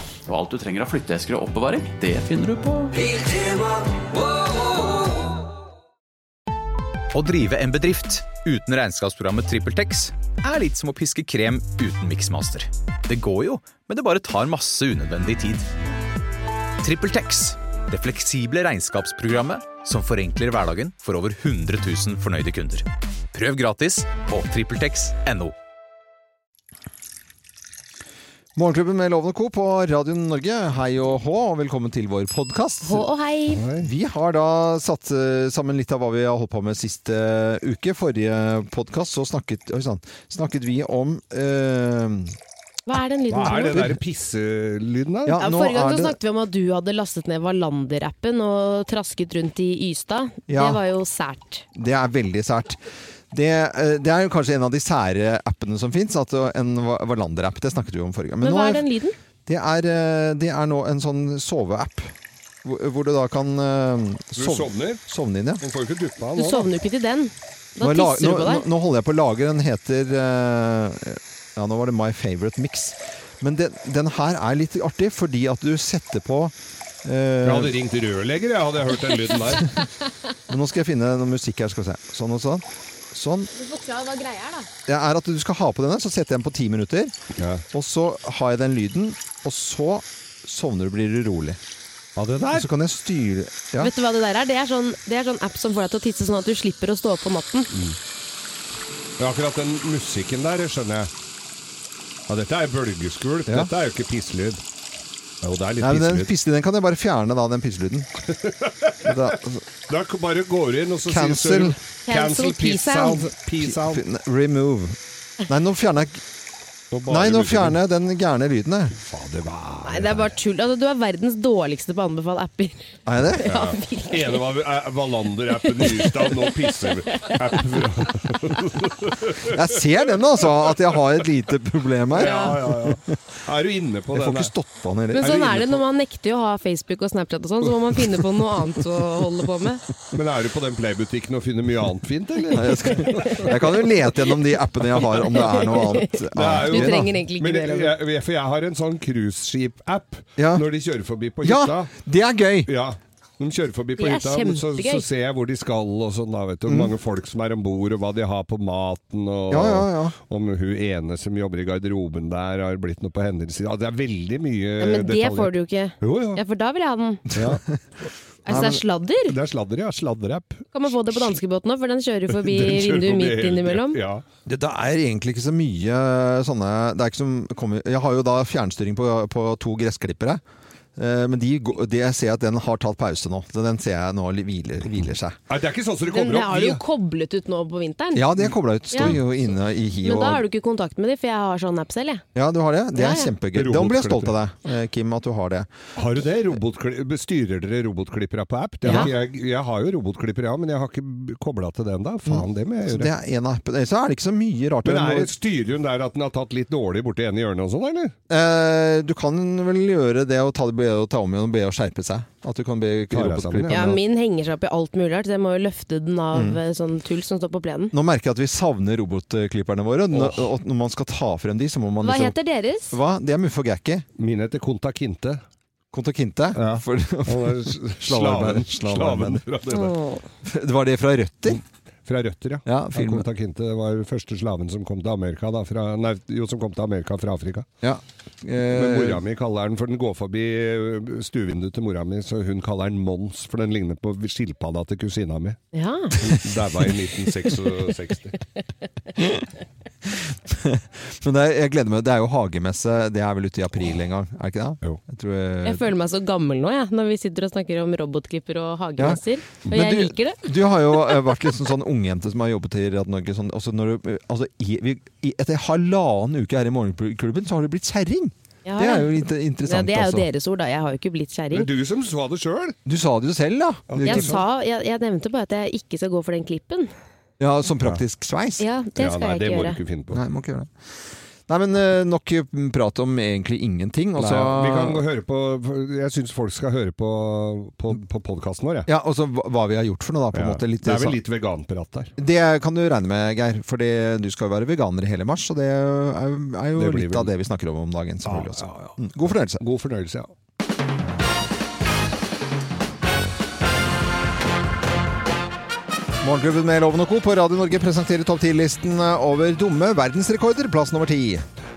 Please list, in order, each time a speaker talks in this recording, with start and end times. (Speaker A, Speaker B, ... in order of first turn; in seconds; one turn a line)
Speaker A: 0.3-2.9
Speaker B: 7.1-15.7
Speaker B: 16.8-25.6
Speaker C: 28.6-33.1
Speaker D: 32.8-33.6
Speaker E: 33.5-33.9
Speaker C: 33.8-42.4
Speaker D: 42.9-43.9
Speaker E: 43.3-45.4
Speaker C: 43.4-44.0
Speaker C: 45.3-46.2
Speaker D: 45.4-51.6
Speaker C: 50.5-50.8
Speaker C: 51.8-58.9
Speaker D: 58.4-59.2
Speaker C: 59.5-65.6
Speaker E: 64.4-65.0
Speaker E: 65.6-66.7
Speaker D: 66.4-68.7
Speaker C: 67.8-77.8
Speaker E: 77.4-79.7
Speaker C: 80.5-83.5
Speaker D: 83.5-84.7
Speaker C: 84.9-87.1
Speaker E: 87.4-87.6
Speaker C: 87.7-91.6
Speaker E: 92.2-92.7
Speaker C: 92.5-93.9
Speaker D: 93.8-97.7
Speaker E: 99.2-101.1
Speaker E: 102.3-104.6
Speaker E: 105.4-106.3
Speaker C: 105.8-108.1
Speaker E: 108.4-109.2
Speaker C: 109.0-109.6
Speaker E: 109.9-114.0
Speaker C: 111.0-111.8
Speaker D: 112.1-113.3
Speaker C: 113.6-116.2
Speaker E: 116.9-117.8
Speaker C: 117.1-119.0
Speaker E: 119.1-120.3
Speaker D: 119.9-124.4
Speaker C: 123.1-123.5
Speaker E: 123.5-129.7
Speaker C: 129.5-133.0
Speaker E: 132.1-134.5
Speaker D: 132.2-132.6
Speaker C: 134.1-135.5
Speaker D: 135.1-139.8
Speaker E: 135.2-135.8
Speaker E: 140.1-143.6
Speaker C: 142.5-147.1
Speaker D: 143.0-143.5
Speaker D: 145.2-147.9
Speaker E: 146.3-151.9
Speaker C: 150.4-150.7
Speaker C: 151.4-152.7
Speaker E: 152.7-166.4
Speaker D: 154.0-155.1
Speaker C: 156.7-156.9
Speaker C: 159.5-160.2
Speaker D: 164.8-167.2
Speaker C: 167.3-167.6
Speaker E: 167.3-167.6
Speaker D: 168.5-169.3
Speaker C: 168.5-168.8
Speaker E: 168.5-171.3
Speaker D: 170.7-174.0
Speaker E: 172.3-174.2
Speaker C: 174.5-180.4
Speaker C: 181.0-185.4
Speaker E: 184.8-186.8
Speaker D: 186.1-188.3
Speaker C: 188.1-190.4
Speaker D: 190.0-192.2
Speaker C: 192.3-195.7
Speaker D: 193.0-193.3
Speaker E: 193.5-194.3
Speaker E: 196.0-203.1
Speaker C: 198.9-199.1
Speaker C: 202.3-205.3
Speaker E: 204.8-208.1
Speaker C: 208.3-214.0
Speaker E: 213.1-213.8
Speaker D: 213.7-217.9
Speaker C: 216.3-216.6
Speaker C: 217.9-222.4
Speaker E: 220.1-220.5
Speaker D: 222.0-223.0
Speaker C: 222.9-224.1
Speaker E: 224.2-225.4
Speaker C: 225.9-229.5
Speaker E: 226.6-230.0
Speaker D: 229.7-230.2
Speaker C: 230.4-231.6
Speaker E: 231.5-237.7
Speaker C: 232.7-233.3
Speaker C: 237.8-239.2
Speaker E: 238.7-245.6
Speaker D: 245.7-246.2
Speaker E: 246.2-248.4
Speaker C: 250.1-255.9
Speaker D: 255.7-260.5
Speaker C: 259.0-270.3
Speaker D: 268.6-271.7
Speaker E: 271.5-272.8
Speaker C: 272.9-274.4
Speaker E: 273.9-274.4
Speaker D: 274.0-276.9
Speaker C: 277.4-278.6
Speaker D: 278.6-279.8
Speaker E: 279.0-280.2
Speaker C: 280.1-285.0
Speaker E: 284.2-288.9
Speaker C: 288.9-291.2
Speaker E: 290.3-292.1
Speaker C: 292.2-299.6
Speaker E: 296.8-297.3
Speaker E: 298.2-300.3
Speaker C: 306.2-311.4